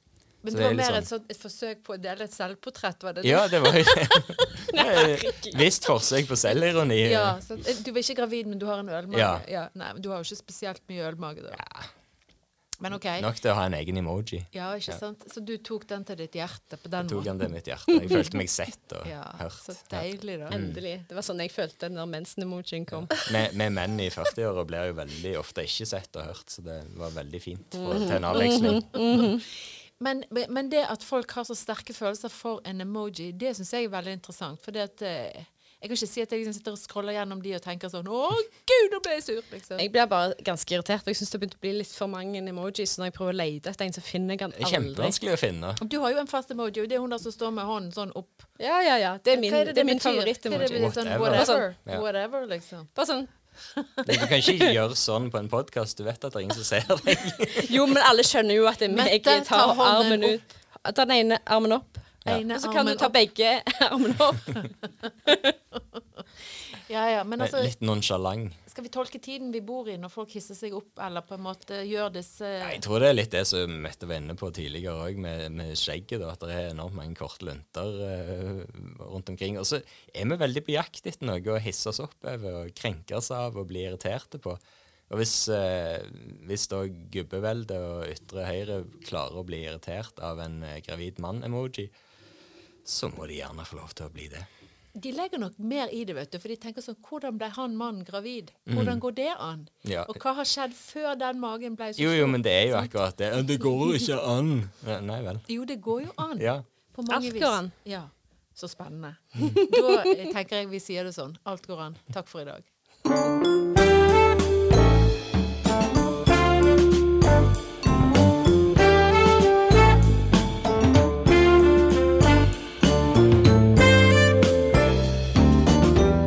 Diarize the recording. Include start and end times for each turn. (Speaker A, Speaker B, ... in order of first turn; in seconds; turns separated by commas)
Speaker A: 0.4-4.6, Speaker B: 0.5-1.1, Speaker B: 3.2-7.4, Speaker C: 4.7-5.6, Speaker A: 7.0-11.6, Speaker B: 9.1-9.4, Speaker B: 11.5-11.9, Speaker A: 12.8-13.3, Speaker B: 13.2-15.0, Speaker A: 14.5-17.3, Speaker B: 17.0-20.8, Speaker A: 19.0-20.6, Speaker C: 20.5-23.2, Speaker B: 22.9-29.0, Speaker C: 27.8-29.4, Speaker A: 30.0-39.8, Speaker C: 39.8-45.2, Speaker B: 44.6-45.8, Speaker A: 45.8-48.5, Speaker C: 48.6-51.6, Speaker A: 49.3-52.9, Speaker B: 50.5-52.0, Speaker C: 53.0-53.3, Speaker A: 53.8-54.1, Speaker B: 54.0-57.8, Speaker C: 57.5-64.6, Speaker A: 58.9-60.4, Speaker A: 62.3-63.2, Speaker C: 65.3-65.5, Speaker A: 66.9-67.7, Speaker B: 67.4-68.6, Speaker A: 68.7-72.8, Speaker B: 72.6-91.9, Speaker B: 92.8-94.5, Speaker A: 95.0-102.9, Speaker B: 98.7-99.0, Speaker B: 99.8-100.2, Speaker B: 102.0-105.5, Speaker A: 105.5-112.7, Speaker B: 106.4-106.7, Speaker C: 107.1-107.7, Speaker C: 109.4-110.1